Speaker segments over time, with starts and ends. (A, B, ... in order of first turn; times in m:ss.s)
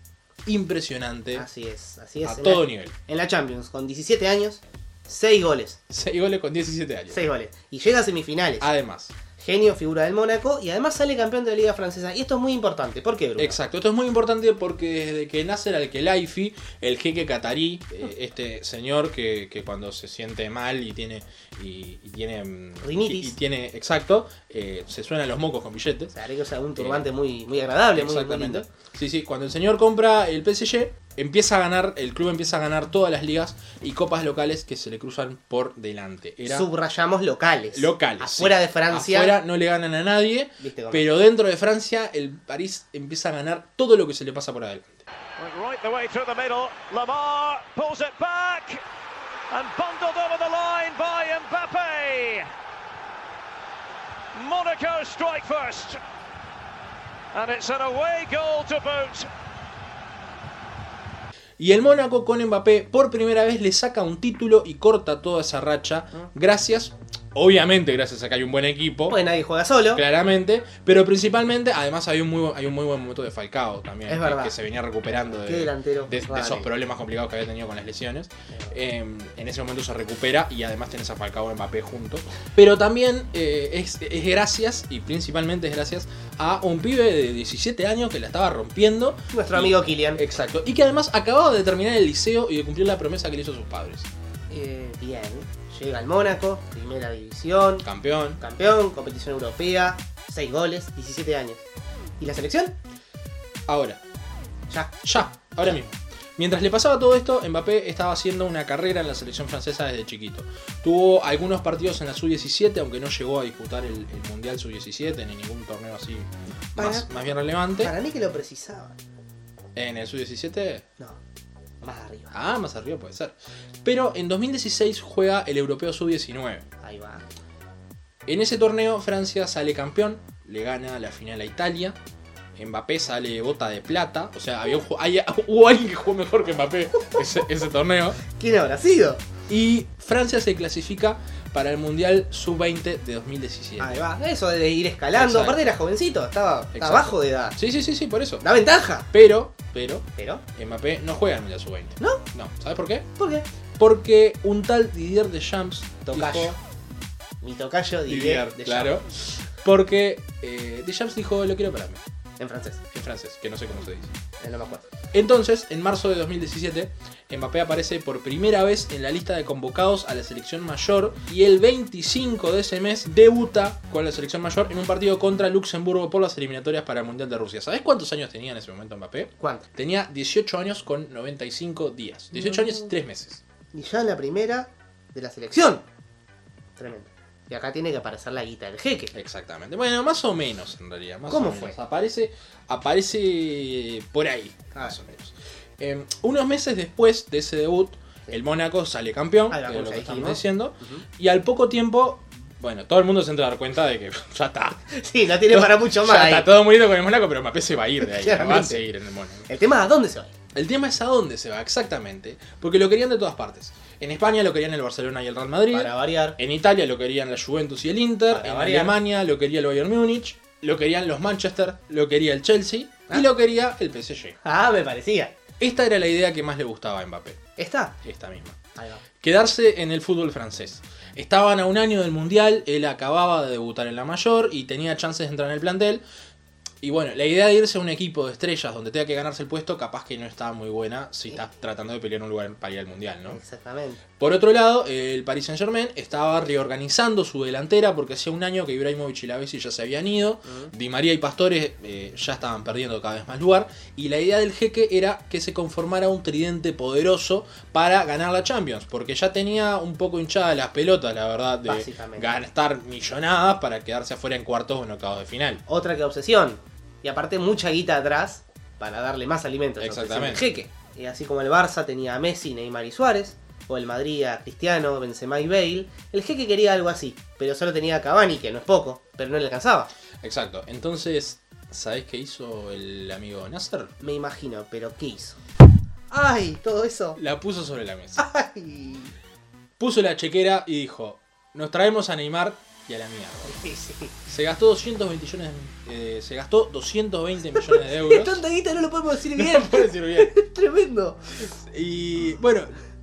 0:00.4-0:01.4 A
0:01.3-0:05.8 B
0:02.2-0:02.9 A
0:05.9-0:07.2 A
0:07.1-0:08.7 B
0:08.6-0:09.1 A
0:09.4-0:13.6 B
0:13.4-0:26.1 A
0:22.8-0:23.4 B
0:26.1-0:28.7 B
0:26.8-0:27.0 A
0:27.9-0:36.7 A
0:36.4-0:39.4 B
0:37.7-0:45.0 A
0:40.6-0:41.1 B
0:45.4-0:48.8 C
0:49.5-0:52.5 C
0:54.3-0:56.0 C
0:57.3-0:59.3 C
1:01.6-1:09.2 A
1:09.1-1:10.0 B
1:09.9-1:34.1 A
1:14.1-1:14.6 B
1:15.2-1:16.7 B
1:18.5-1:18.8 B
1:29.3-1:30.2 B
1:34.5-1:37.9 B
1:37.8-1:38.4 A
1:38.4-1:41.6 B
1:42.2-1:42.8 B
1:43.7-1:44.0 A
1:44.7-1:45.0 B
1:45.0-1:57.9 A
1:56.8-1:57.1 B
1:57.8-1:59.0 B
1:59.7-2:00.8 A
2:01.8-2:02.3 B
2:02.3-2:06.6 A
2:06.8-2:07.2 B
2:08.2-2:12.0 A
2:12.6-2:18.2 A
2:18.3-2:19.2 B
2:19.5-2:24.0 A
2:23.8-2:27.6 B
2:25.1-2:25.6 A
2:26.7-2:28.4 A
2:28.4-2:29.1 B
2:29.1-2:33.1 A
2:30.2-2:30.4 B
2:33.2-2:33.5 B
2:33.8-2:36.6 A
2:36.0-2:36.6 B
2:37.4-2:39.0 B
2:38.1-2:42.0 A
2:42.4-2:42.8 B
2:42.9-2:44.1 A
2:44.4-2:44.8 B
2:45.1-3:03.4 A
2:59.4-2:59.6 B
3:02.3-3:02.9 B
3:03.7-3:05.8 B
3:06.8-3:09.1 B
3:09.1-3:24.9 A
3:11.3-3:11.8 B
3:19.5-3:21.0 B
3:24.9-3:26.5 B
3:25.5-3:29.5 A
3:28.0-3:28.8 B
3:29.5-3:30.4 B
3:30.5-3:44.4 A
3:35.7-3:36.4 B
3:38.3-3:39.0 B
3:44.4-3:45.4 B
3:45.6-3:47.4 A
3:47.6-3:48.0 B
3:48.0-3:48.6 A
3:48.8-3:49.0 B
3:49.2-3:56.0 A
3:56.8-4:03.4 A
4:03.3-4:04.0 B
4:04.2-4:25.6 A
4:10.4-4:10.7 B
4:21.6-4:22.4 B
4:25.6-4:39.9 B
4:29.8-4:30.6 A
4:40.2-4:43.9 A
4:44.0-4:45.4 B
4:46.1-4:47.2 B
4:47.2-4:48.2 A
4:48.2-4:49.1 B
4:49.8-4:53.6 A
4:53.4-4:54.2 B
4:54.2-4:58.4 A
4:57.5-5:01.5 B
4:59.3-5:00.4 A
5:01.6-5:02.8 A